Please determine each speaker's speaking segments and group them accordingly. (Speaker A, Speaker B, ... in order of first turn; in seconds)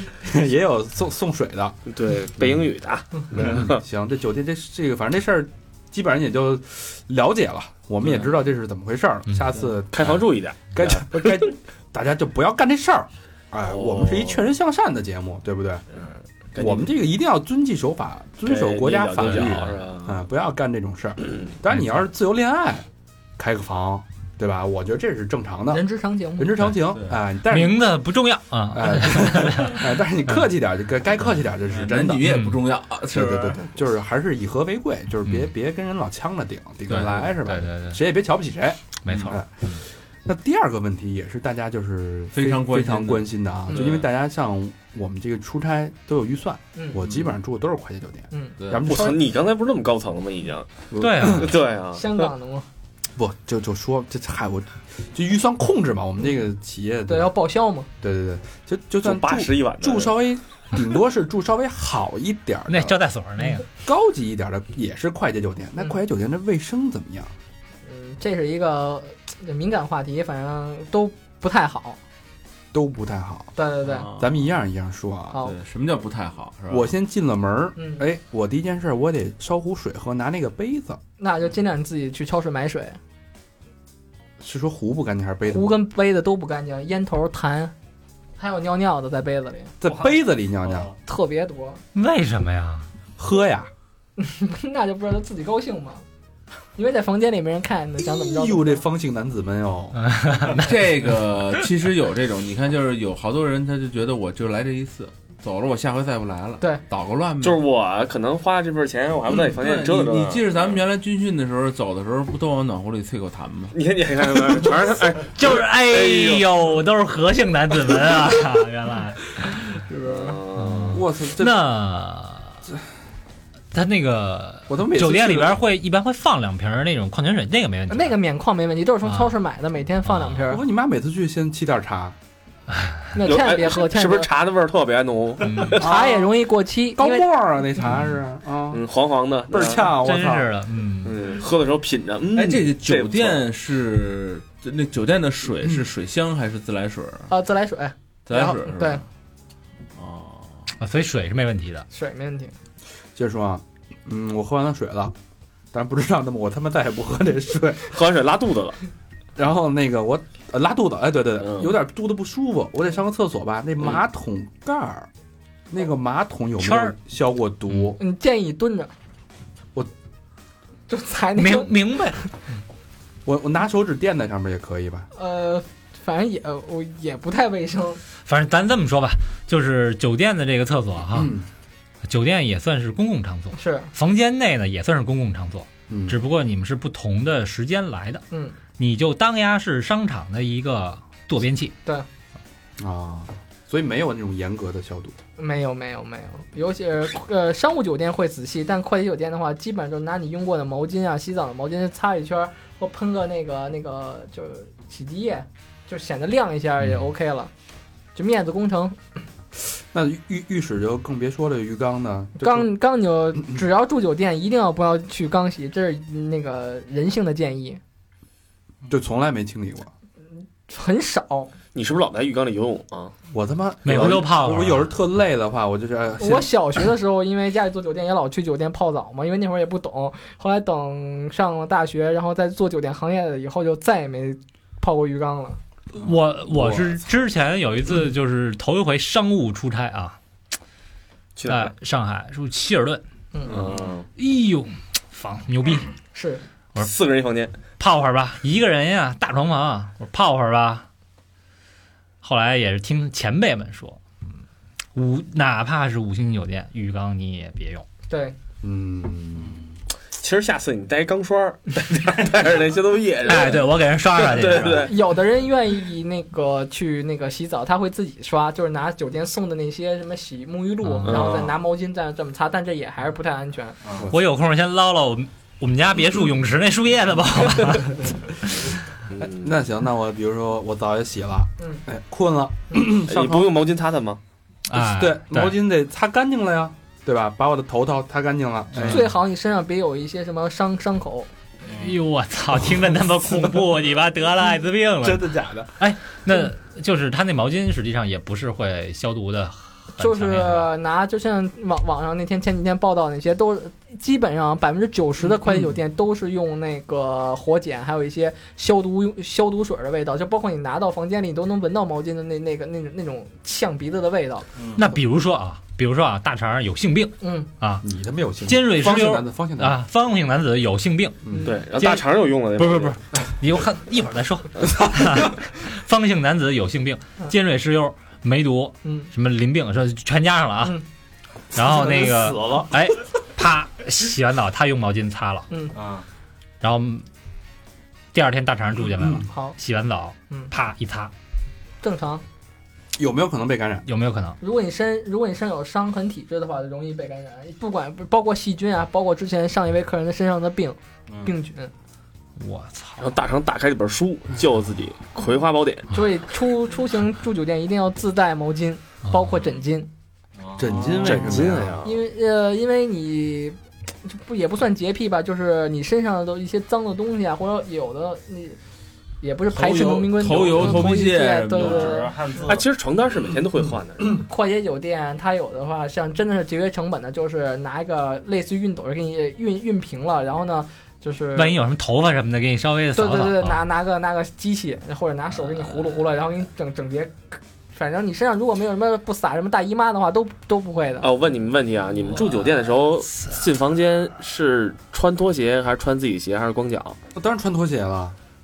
Speaker A: 0.2-1.8, 3.3-10.2, 10.7-15.8, 16.6-22.9, 23.4-25.8, 26.4-27.8, 28.7-32.4, 33.1-39.5, 40.2-49.2, 50.9-51.5, 53.1-57.3, 58.0-63.0, 63.8-67.3, 72.7-73.5, 74.2-75.4, 76.7-81.0, 84.4-85.8, 89.8-90.9, 93.2-93.7, 98.0-100.0, 120.9-121.5, 124.7-125.6, 130.5-132.2, 135.8-136.3, 136.9-138.8, 139.5-140.5, 153.2-155.1, 155.7-158.0, 159.4-165.1, 165.7-168.0, 173.2-175.1, 181.1-181.4, 185.9-186.2, 192.8-195.2, 209.6-212.7, 213.4-213.6, 218.9-219.9, 223.3-226.5, 258.6-259.7, 271.1-271.5, 279.3-283.5, 284.7-289.1, 295.0-295.7, 317.8-319.8, 339.0-339.2, 342.9-343.9, 360.6-361.8, 397.1-398.1
Speaker B: 1.9-3.8, 9.9-11.5, 13.6-14.4, 16.0-16.9, 18.4-20.2, 21.2-21.6, 48.8-52.3, 59.0-60.2, 107.4-110.8, 113.7-116.5, 120.0-121.0, 133.2-135.9, 138.7-139.9, 141.0-143.4, 157.9-158.8, 161.4-161.8, 221.7-223.1, 241.4-241.7, 243.5-244.1, 246.8-247.6, 260.2-264.9, 271.1-271.4, 279.1-279.6, 283.1-284.2, 321.4-323.0, 353.0-355.9, 360.8-362.0, 372.4-374.2, 391.0-397.0
Speaker C: 19.3-19.8, 27.5-29.9, 32.2-32.6, 36.9-38.0, 39.0-39.8, 51.0-51.6, 62.7-63.6, 91.9-92.9, 100.0-100.8, 115.3-119.6, 120.5-122.6, 123.7-128.2, 129.0-129.4, 130.1-130.5, 135.4-135.8, 139.9-141.2, 150.8-151.9, 166.6-166.9, 171.4-172.3, 178.2-181.3, 182.0-188.2, 188.8-191.7, 223.8-224.9, 235.9-240.2, 241.4-243.0, 244.2-245.9, 247.8-250.9, 252.2-254.0, 254.9-257.9, 263.2-264.9, 270.8-271.2, 274.1-278.7, 284.7-285.6, 288.7-289.1, 291.8-300.7, 314.8-317.9, 318.4-321.2, 321.7-322.1, 322.6-330.8, 331.5-335.5, 336.6-337.1, 338.1-341.1, 343.9-344.4, 352.4-353.1, 359.1-359.4, 381.4-383.6
Speaker D: 25.7-26.5, 46.8-47.0, 51.9-52.6, 57.1-57.9, 67.8-72.0, 73.6-74.1, 77.8-78.0, 81.2-83.0, 85.5-87.7, 88.4-89.8, 91.1-91.8, 94.2-96.0, 96.8-98.8, 127.9-130.6, 133.1-134.3, 135.7-137.3, 147.3-149.0, 151.9-152.5, 168.0-168.9, 170.9-171.8, 175.1-178.0, 183.5-183.9, 195.4-207.5, 208.1-209.0, 212.4-217.8, 220.7-221.5, 226.2-235.6, 246.1-246.4, 258.1-258.4, 264.8-273.8, 288.8-291.3, 300.0-314.5, 317.2-317.5, 328.8-329.1, 339.3-339.6, 341.8-342.2, 344.4-351.7, 355.9-359.9, 361.8-368.6, 369.2-372.1, 374.2-381.6, 382.9-391.1
Speaker E: 26.9-27.1, 31.6-33.6, 39.1-39.3, 42.3-44.1, 47.0-47.3, 48.6-49.0, 73.8-74.5, 75.4-76.9, 100.5-107.6, 109.4-113.8, 114.4-114.7, 119.9-120.4, 142.3-147.3, 148.3-149.1, 149.9-150.6, 369.5-372.1
Speaker F: 89.8-90.9, 273.8-274.1, 314.6-314.9, 331.6-332.7, 335.7-336.1, 360.4-361.1, 371.6-372.6